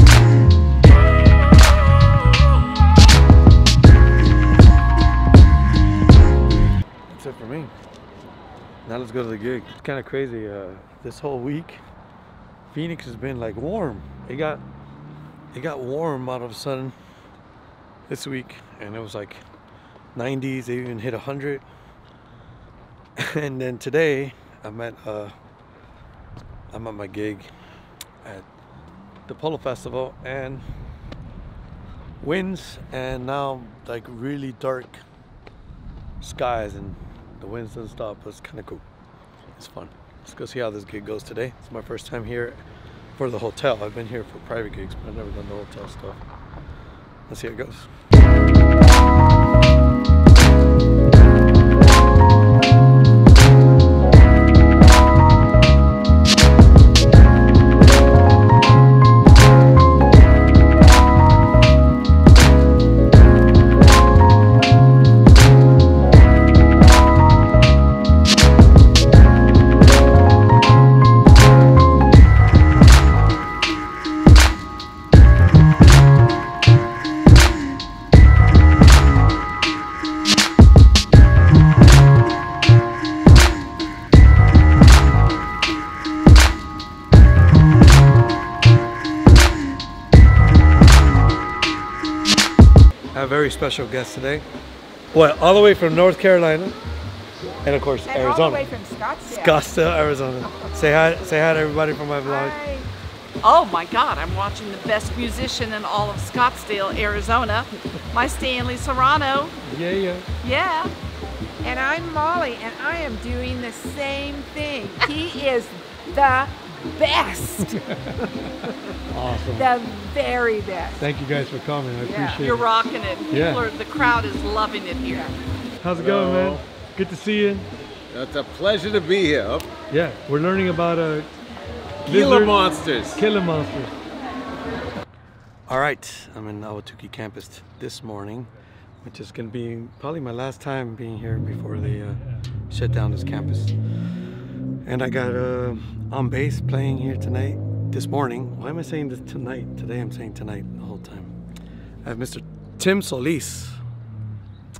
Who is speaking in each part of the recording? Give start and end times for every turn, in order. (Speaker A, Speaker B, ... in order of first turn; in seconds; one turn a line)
Speaker A: 7.1-7.7
Speaker A: 8.8-11.8
Speaker A: 12.7-14.6
Speaker A: 15.5-16.9
Speaker A: 18.1-19.4
Speaker A: 20.1-21.6
Speaker A: 23.2-25.3
Speaker A: 26.7-27.5
Speaker A: 29.3-30.6
Speaker A: 32.2-35.0
Speaker A: 36.2-38.8
Speaker A: 39.5-42.6
Speaker A: 43.1-46.2
Speaker A: 47.3-47.9
Speaker A: 93.1-94.4
Speaker A: 95.1-96.7
Speaker A: 97.6-98.7
Speaker B: 98.1-99.6
Speaker A: 99.3-102.6
Speaker B: 102.2-102.9
Speaker C: 103.4-109.5
Speaker A: 109.6-110.3
Speaker C: 110.4-110.9
Speaker B: 111.6-117.8
Speaker A: 117.7-119.7
Speaker B: 119.5-121.0
Speaker A: 121.0-122.7
Speaker B: 122.0-122.4
Speaker C: 122.4-125.3
Speaker A: 123.3-123.7
Speaker A: 125.8-127.7
Speaker D: 126.0-126.6
Speaker D: 128.1-129.7
Speaker A: 129.9-131.3
Speaker A: 132.0-133.9
Speaker D: 132.1-133.2
Speaker A: 135.7-138.5
Speaker A: 139.0-143.8
Speaker A: 144.8-151.3
Speaker A: 152.0-153.8